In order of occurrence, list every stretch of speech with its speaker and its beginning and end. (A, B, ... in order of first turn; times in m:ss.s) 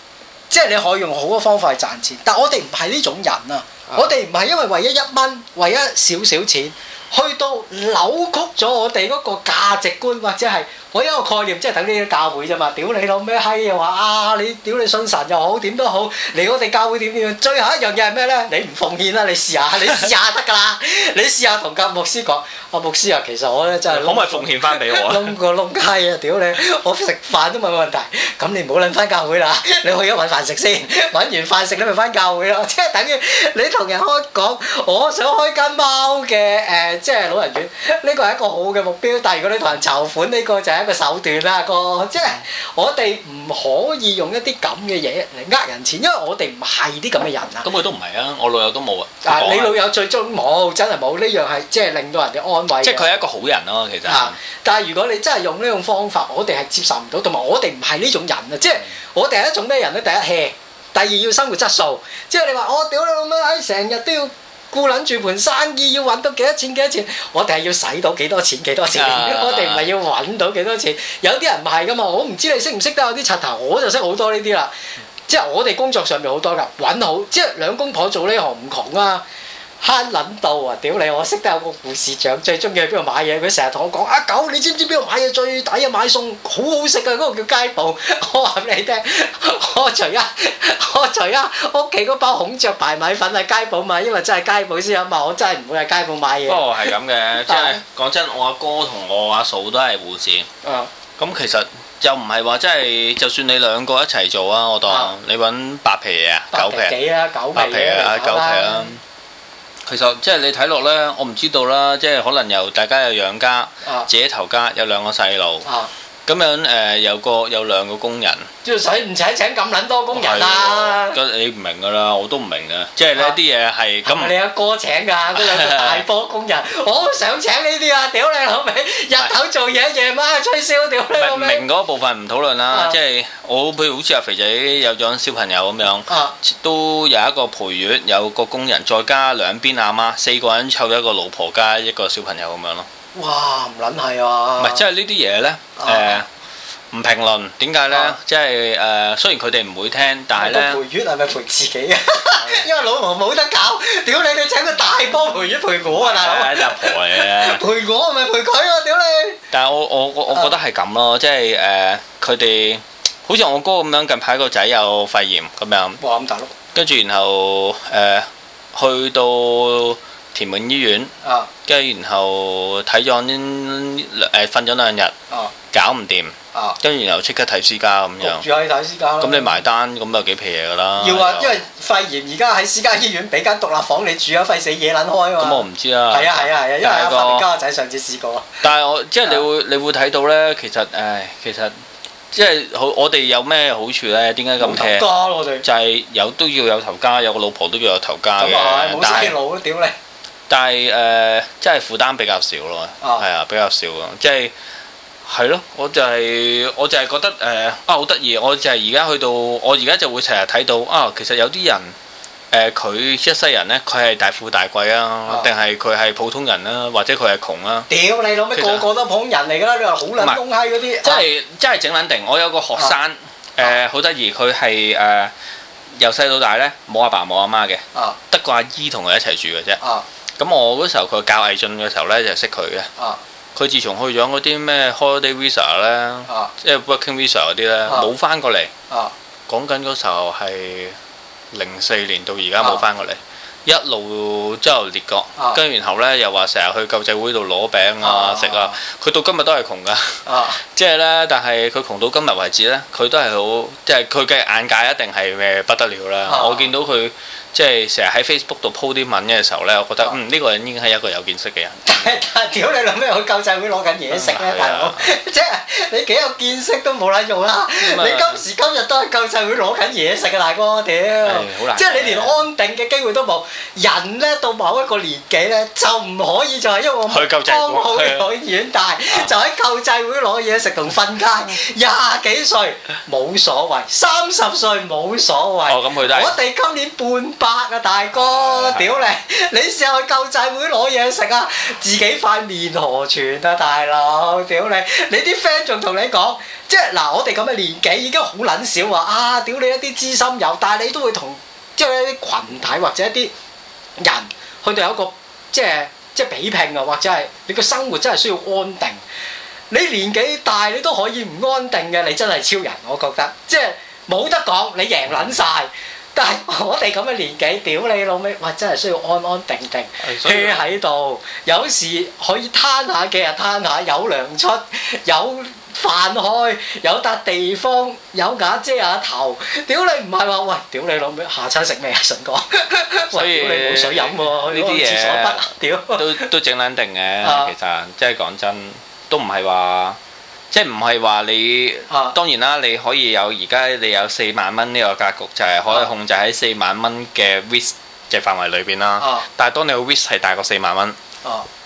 0:00.5-0:47.7 A
0:23.9-0:25.3 B
0:47.6-0:49.8 B
0:49.2-0:53.2 A
0:52.8-0:54.4 B
0:54.0-1:14.7 A
1:08.9-1:09.9 B
1:15.3-1:19.2 A
1:19.8-1:36.9 A
1:36.5-1:40.5 B
1:37.4-1:37.8 A
1:40.6-1:40.9 A
1:41.2-1:47.0 B
1:44.9-1:45.1 A
1:46.5-1:48.9 A
1:47.5-1:49.0 B
1:49.9-1:55.7 B
1:55.6-1:55.9 A
1:56.3-1:58.5 B
1:58.6-2:01.2 A
2:00.1-2:04.3 B
2:04.0-2:11.6 A
2:05.3-2:06.0 B
2:11.2-2:22.9 B
2:12.7-2:13.0 A
2:16.1-2:16.4 A
2:23.2-2:24.8 A
2:24.6-2:26.3 B
2:25.8-2:26.2 A
2:26.9-2:30.8 B
2:27.9-2:28.2 A
2:30.4-2:39.4 A
2:32.4-2:32.7 B
2:35.9-2:37.6 B
2:39.5-2:46.0 B
2:46.0-2:46.5 A
2:46.7-2:51.1 B
2:51.2-2:51.5 A
2:51.6-2:55.2 B
2:55.7-2:58.4 B
2:58.2-2:59.6 A
2:59.2-3:01.6 B
3:01.0-3:08.6 A
3:05.4-3:07.5 B
3:08.6-3:11.8 B
3:12.3-3:15.1 B
3:14.6-3:15.6 A
3:15.6-3:19.4 B
3:18.4-3:20.0 A
3:20.5-3:24.5 B
3:23.0-3:23.3 A
3:25.2-3:32.0 B
3:32.5-3:37.9 B
3:37.9-3:41.3 A
3:38.5-3:38.9 B
3:41.0-3:45.3 B
3:46.0-3:49.8 B
3:49.8-3:50.0 A
3:50.4-3:52.9 B
3:53.6-3:58.7 B
3:59.5-4:01.0 B
4:01.5-4:22.1 B
4:08.0-4:08.8 A
4:10.3-4:10.6 A
4:16.3-4:16.7 A
4:21.9-5:03.3 A
4:24.1-4:25.1 B
4:27.8-4:28.4 B
4:31.2-4:32.5 B
4:37.1-4:38.3 B
4:45.7-4:46.4 B
4:48.2-4:49.0 B
5:04.0-5:09.0 A
5:09.7-5:36.3 A
5:20.0-5:20.7 B
5:33.1-5:40.0 B
5:37.2-5:37.5 A
5:40.5-5:51.0 B
5:41.9-5:42.2 A
5:49.0-5:49.3 A